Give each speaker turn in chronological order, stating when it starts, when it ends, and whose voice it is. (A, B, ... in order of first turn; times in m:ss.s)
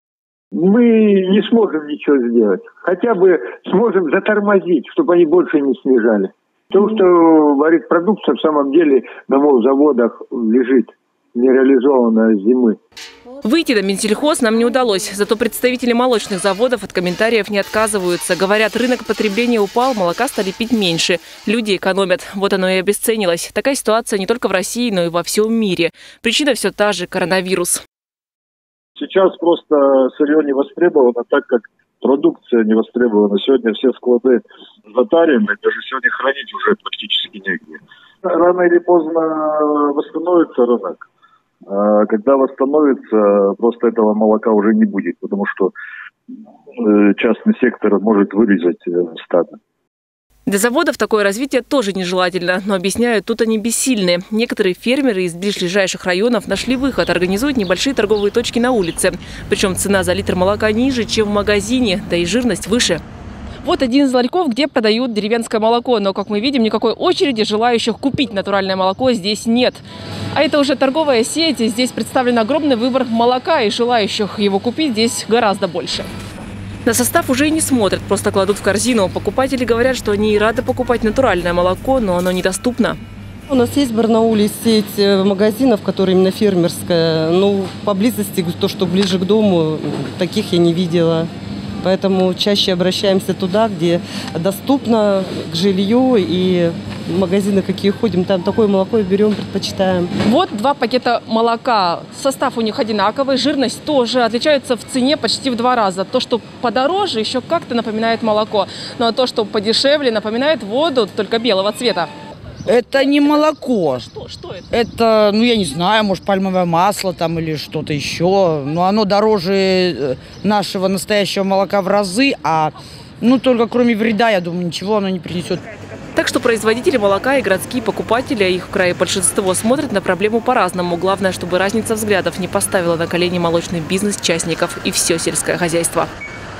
0:00.5-0:12.8 A
0:13.4-0:27.8 B
0:29.0-0:41.1 C
0:41.7-0:45.7 C
0:46.8-0:49.6 C
0:50.5-1:03.0 B
1:03.6-1:16.1 B
1:16.9-1:23.0 B
1:23.5-1:31.3 D
1:31.8-1:40.1 D
1:40.2-1:52.1 B
1:52.7-1:53.4 B
1:52.7-1:54.1 E
1:54.0-1:54.6 B
1:54.7-2:05.6 E
2:06.1-2:16.1 B